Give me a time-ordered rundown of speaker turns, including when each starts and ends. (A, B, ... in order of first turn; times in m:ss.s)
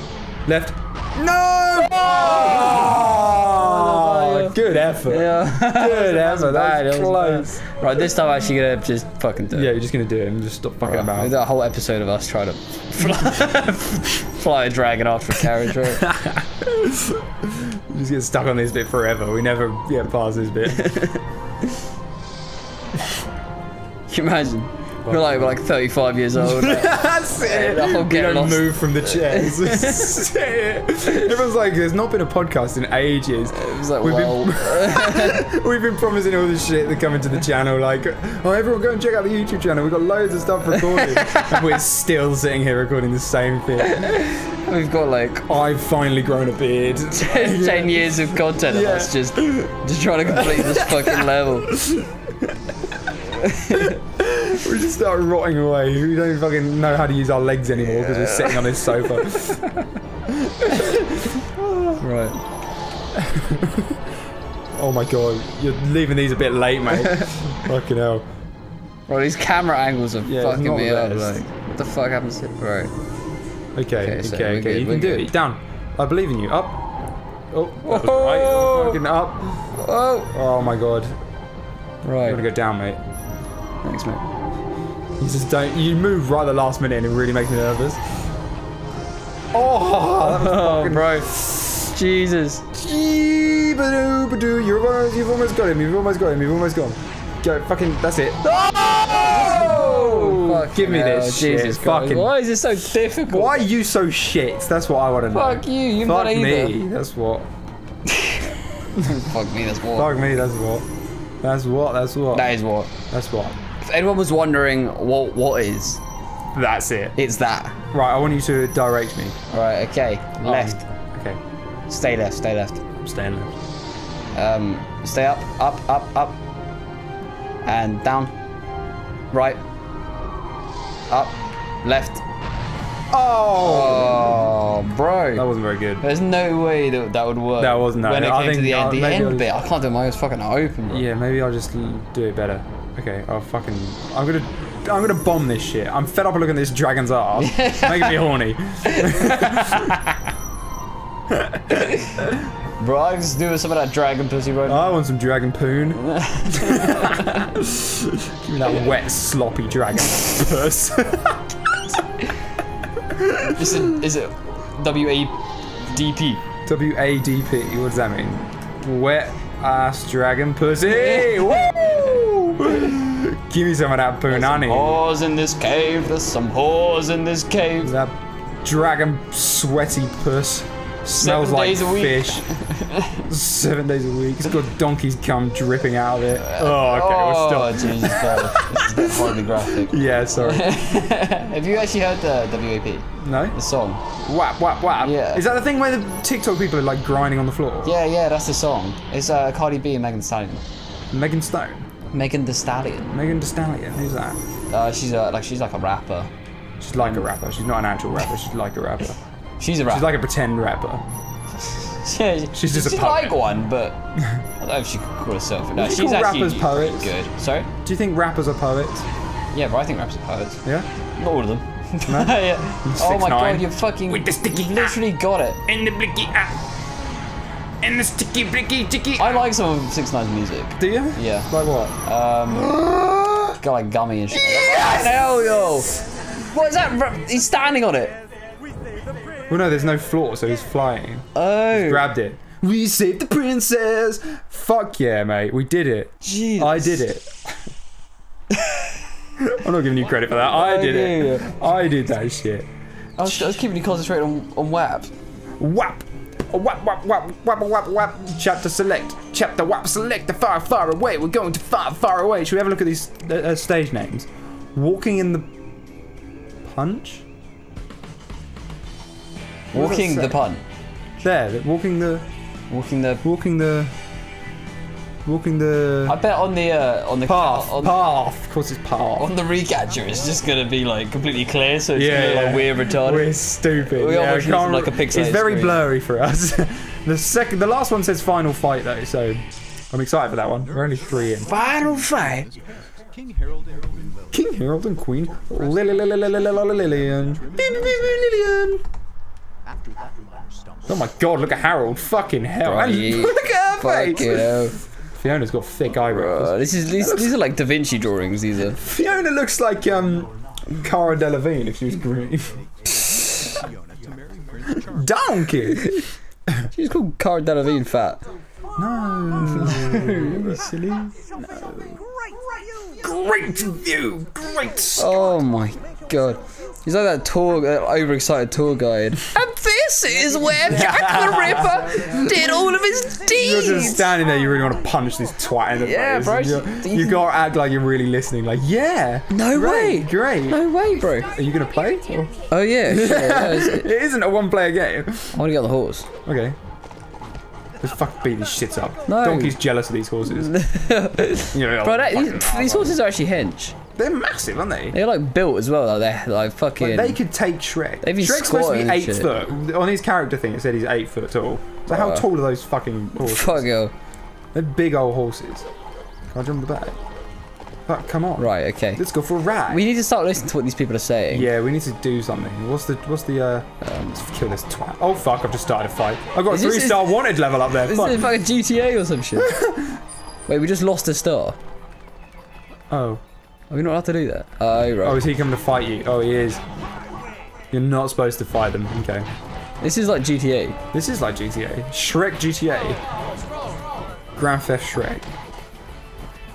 0:00.4-0:07.6 A
0:02.1-0:09.7 B
0:09.5-0:11.3 A
0:10.8-0:16.0 B
0:16.0-0:20.9 A
0:20.7-0:21.2 B
0:24.1-0:30.1 B
0:25.0-0:25.6 A
0:26.3-0:43.9 A
0:33.6-0:35.4 B
0:40.8-0:41.4 B
0:43.8-0:45.5 B
0:45.5-0:49.6 A
0:47.1-0:51.8 B
0:50.3-0:52.5 A
0:53.3-0:53.9 B
0:53.7-0:59.6 A
0:57.8-0:59.6 B
1:00.3-1:02.0 A
1:02.0-1:02.4 B
1:03.2-1:03.9 A
1:04.8-1:08.2 A
1:09.1-1:12.9 B
1:10.2-1:11.4 A
1:13.7-1:16.8 A
1:14.0-1:15.3 B
1:17.5-1:19.7 A
1:17.8-1:19.0 B
1:19.8-1:20.3 B
1:20.3-1:21.1 A
1:22.0-1:22.4 B
1:22.2-1:23.0 A
1:23.8-1:24.3 B
1:25.2-1:28.0 A
1:29.5-1:31.3 A
1:30.2-1:32.6 B
1:32.7-1:42.3 A
1:38.4-1:43.7 B
1:43.2-1:47.4 A
1:45.3-1:46.8 B
1:48.1-1:50.1 B
1:48.9-1:49.3 A
1:49.9-1:50.8 A
1:51.4-1:52.5 A
1:52.3-1:52.9 B
1:53.1-1:53.6 A
1:53.8-1:56.0 B
1:56.5-1:57.2 A
1:57.2-1:57.8 B
1:57.9-1:59.4 A
1:59.5-2:00.8 B
2:00.4-2:01.4 A
2:01.9-2:02.8 B
2:03.0-2:03.5 A
2:04.3-2:06.4 B
2:07.6-2:08.3 B
2:09.3-2:09.6 B
2:11.1-2:12.2 B
2:13.1-2:14.4 A
2:13.6-2:15.4 B
2:15.3-2:16.0 A
2:16.0-2:21.0 B
2:17.6-2:19.5 A
2:20.9-2:30.2 A
2:27.4-2:28.2 B
2:28.8-2:29.9 B
2:31.3-2:32.4 A
2:31.8-2:32.1 B
2:32.8-2:34.9 B
2:34.7-2:41.4 A
2:36.0-2:37.5 B
2:43.1-2:44.0 A
2:43.5-2:46.4 B
2:46.6-2:55.0 A
2:50.8-2:52.2 B
2:54.3-2:57.9 B
2:57.8-3:02.4 A
3:01.2-3:03.2 B
3:03.2-3:11.0 A
3:06.4-3:14.0 B
3:13.2-3:13.6 A
3:14.2-3:17.9 A
3:15.0-3:15.4 B
3:17.8-3:20.6 B
3:21.1-3:21.8 A
3:22.1-3:23.1 B
3:23.1-3:24.4 A
3:24.7-3:26.3 B
3:26.8-3:29.2 A
3:26.9-3:27.3 B
3:29.6-3:30.1 B
3:29.8-3:31.0 A
3:31.6-3:34.0 B
3:32.5-3:33.4 A
3:34.6-3:37.7 B
3:35.8-3:37.1 A
3:37.8-3:39.0 A
3:39.5-3:40.6 B
3:41.2-3:45.6 B
3:42.1-3:45.0 A
3:45.7-3:46.6 A
3:47.8-3:49.5 A
3:49.2-3:51.5 B
3:50.8-3:52.0 A
3:52.0-3:52.7 B
3:52.5-3:53.6 A
3:53.6-3:58.2 B
3:54.3-3:55.8 A
3:59.5-4:07.4 A
4:01.3-4:02.0 B
4:06.2-4:07.0 B
4:08.6-4:08.9 B
4:09.5-4:12.7 A
4:10.3-4:11.5 B
4:13.2-4:15.1 B
4:13.2-4:13.6 A
4:15.6-4:25.5 A
4:26.6-4:27.2 A
4:29.7-4:30.4 A
4:29.7-4:30.6 B
4:31.2-4:32.2 A
4:32.7-4:33.2 B
4:33.2-4:33.9 A
4:35.2-4:36.2 A
4:36.1-4:38.0 B
4:37.2-4:39.3 A
4:39.2-4:45.8 B
4:41.9-4:51.7 A
4:51.5-4:52.5 B
4:51.7-4:52.3 C
4:53.4-4:54.1 C
4:54.3-4:58.8 A
4:57.3-4:58.0 C
5:00.6-5:00.9 C
5:00.9-5:04.7 A
5:02.6-5:04.8 B
5:05.2-5:07.4 A
5:06.0-5:08.8 B
5:08.8-5:12.6 A
5:13.2-5:14.9 C
5:14.8-5:16.0 A
5:16.7-5:18.2 B
5:18.8-5:20.6 A
5:19.4-5:21.1 B
5:21.4-5:22.0 A
5:23.0-5:25.2 A
5:25.0-5:34.1 B
5:30.6-5:32.7 A
5:33.3-5:40.6 A
5:35.8-5:37.2 B
5:39.3-5:41.3 B
5:41.2-5:42.3 A
5:42.5-5:43.9 B
5:42.8-5:45.4 A
5:45.3-5:46.1 B
5:46.2-5:46.6 A
5:47.8-5:50.5 A
5:49.1-5:49.6 B
5:50.4-5:53.8 B
5:51.5-5:53.0 A
5:54.0-5:55.0 A
5:54.9-5:57.2 B
5:56.8-6:03.7 A
5:58.0-5:59.5 B
6:01.9-6:02.2 B
6:03.2-6:03.9 B
6:04.5-6:05.7 A
6:06.3-6:07.0 A
6:07.9-6:09.8 A
6:08.4-6:09.0 B
6:09.7-6:11.5 B
6:11.3-6:18.3 A
6:13.8-6:14.2 B
6:16.5-6:17.2 B
6:17.7-6:19.5 B
6:19.4-6:20.0 A
6:20.5-6:21.6 B
6:22.9-6:23.2 A
6:23.7-6:25.2 B
6:25.0-6:26.6 A
6:27.7-6:29.3 A
6:29.8-6:30.8 B
6:30.9-6:33.0 A
6:34.4-6:35.3 A